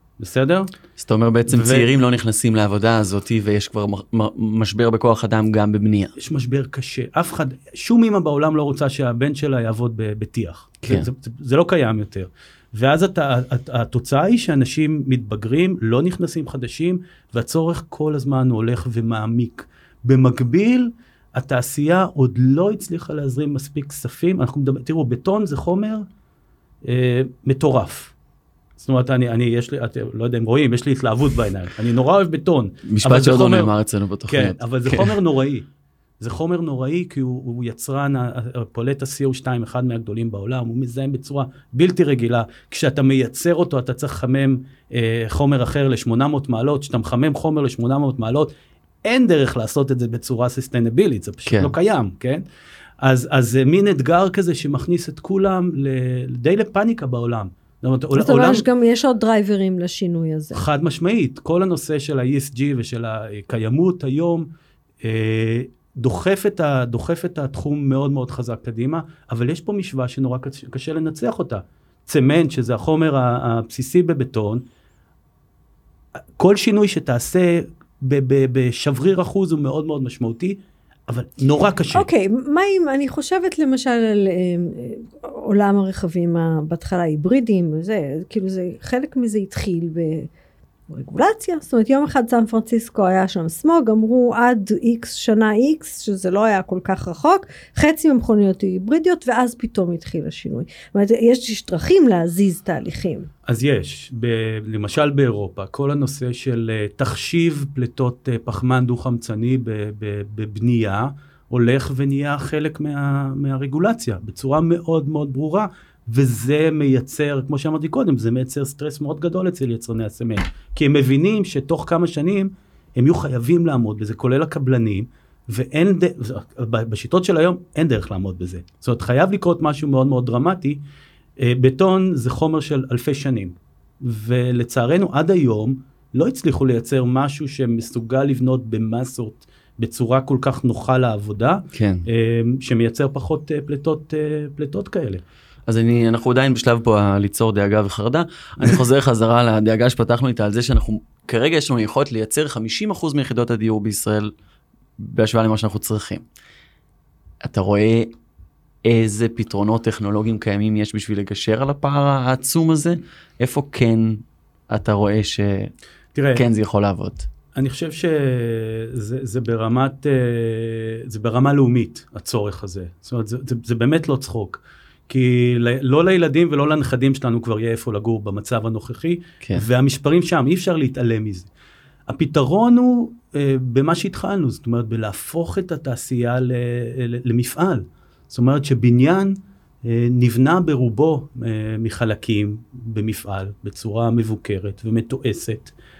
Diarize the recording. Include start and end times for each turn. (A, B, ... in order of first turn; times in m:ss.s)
0:00.2-0:00.7 A
0:01.0-0:06.1 B
0:01.5-0:01.9 A
0:06.2-0:26.1 A
0:26.8-0:28.1 A
0:28.8-0:33.7 A
0:32.8-0:35.1 B
0:34.3-0:35.7 A
0:36.2-0:48.5 A
0:49.0-0:52.4 A
0:51.5-0:51.7 B
0:53.0-0:58.7 A
0:58.2-1:00.6 C
1:00.5-1:04.5 A
1:05.0-1:14.6 A
1:16.4-1:22.1 A
1:21.9-1:30.3 C
1:30.9-1:43.3 C
1:43.4-2:10.8 A
2:11.4-2:25.2 A
2:21.7-2:22.0 B
2:25.7-2:34.3 B
2:35.0-2:36.2 B
2:37.4-2:38.1 B
2:38.8-2:45.7 B
2:46.1-2:46.4 A
2:46.3-2:47.3 B
2:47.5-3:01.5 A
3:02.1-3:15.7 A